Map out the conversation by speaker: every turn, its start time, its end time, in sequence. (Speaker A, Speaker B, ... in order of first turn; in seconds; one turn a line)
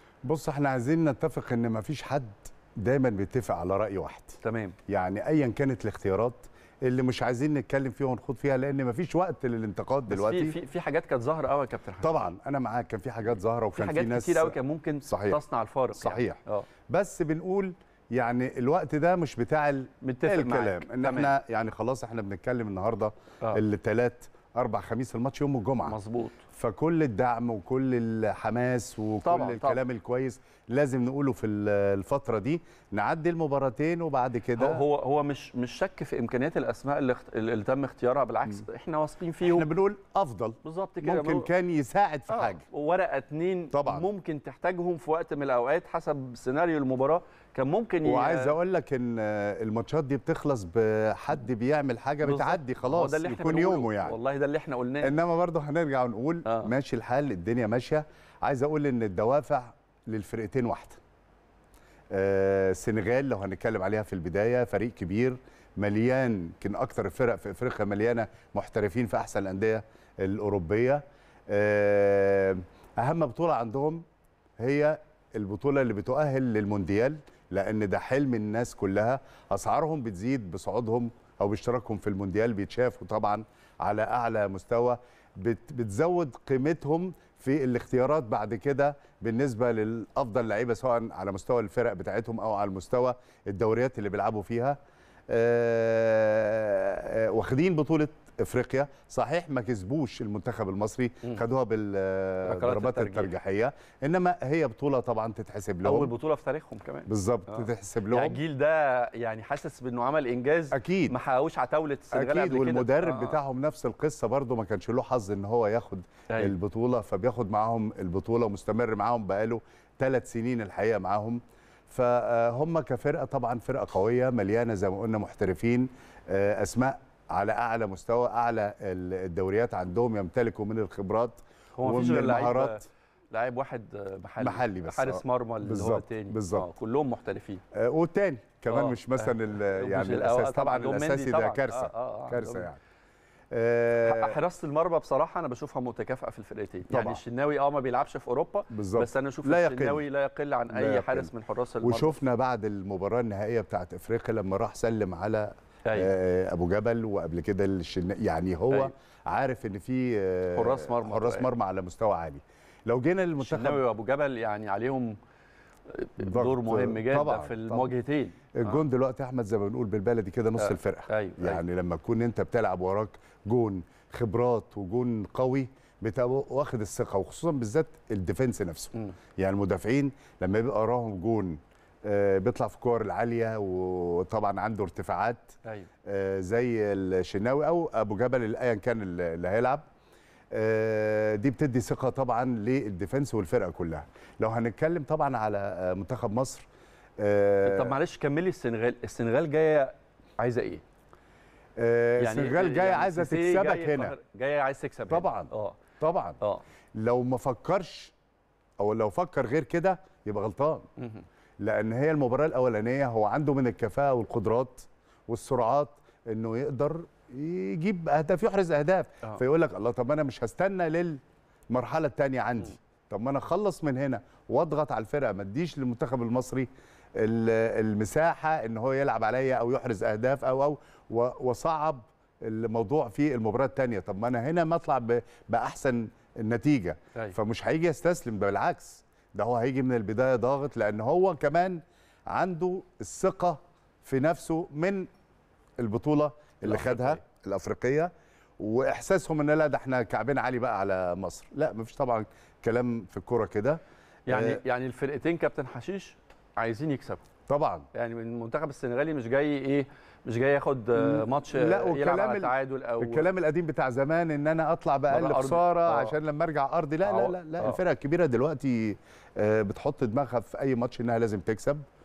Speaker A: 0.2-10.6
Speaker B: 4.4-4.8
Speaker B: 10.1-12.2
Speaker A: 12.0-15.4
Speaker B: 13.7-16.7
Speaker A: 15.9-26.0
Speaker B: 20.0-21.3
Speaker B: 25.9-26.4
Speaker A: 26.5-34.8
Speaker B: 29.2-29.8
Speaker B: 34.6-39.7
Speaker A: 39.4-42.6
Speaker B: 40.6-41.5
Speaker B: 42.3-48.5
Speaker A: 43.7-44.1
Speaker A: 48.0-54.2
Speaker B: 52.2-55.1
Speaker A: 55.0-61.0
Speaker B: 56.5-56.7
Speaker A: 62.1-74.0
Speaker A: 74.6-94.8
Speaker A: 95.3-106.1
Speaker B: 102.5-103.3
Speaker B: 105.8-113.4
Speaker A: 107.1-108.4
Speaker A: 110.7-111.2
Speaker A: 112.1-132.9
Speaker B: 116.3-116.6
Speaker B: 131.8-137.6
Speaker A: 134.4-136.7
Speaker A: 137.7-142.8
Speaker B: 138.7-142.7
Speaker A: 143.5-144.4
Speaker B: 144.0-152.2
Speaker A: 146.9-147.2
Speaker A: 148.7-150.1
Speaker A: 150.7-151.3
Speaker A: 151.8-163.8
Speaker B: 155.8-156.1
Speaker B: 160.5-161.5
Speaker B: 163.4-165.2
Speaker B: 165.9-168.8
Speaker A: 166.2-167.9
Speaker A: 168.6-189.8
Speaker B: 170.6-171.6
Speaker A: 190.5-196.7
Speaker A: 197.2-198.0
Speaker B: 197.6-200.8
Speaker A: 201.8-204.2
Speaker B: 202.2-205.8
Speaker A: 205.1-206.4
Speaker A: 207.0-208.1
Speaker A: 208.8-210.8
Speaker B: 211.0-211.2
Speaker A: 211.6-221.2
Speaker A: 221.7-245.1
Speaker A: 245.8-254.6
Speaker B: 246.6-247.2
Speaker B: 254.3-257.2
Speaker A: 257.5-257.9
Speaker B: 257.9-263.3
Speaker A: 261.0-271.8
Speaker B: 265.1-266.1
Speaker B: 267.0-267.8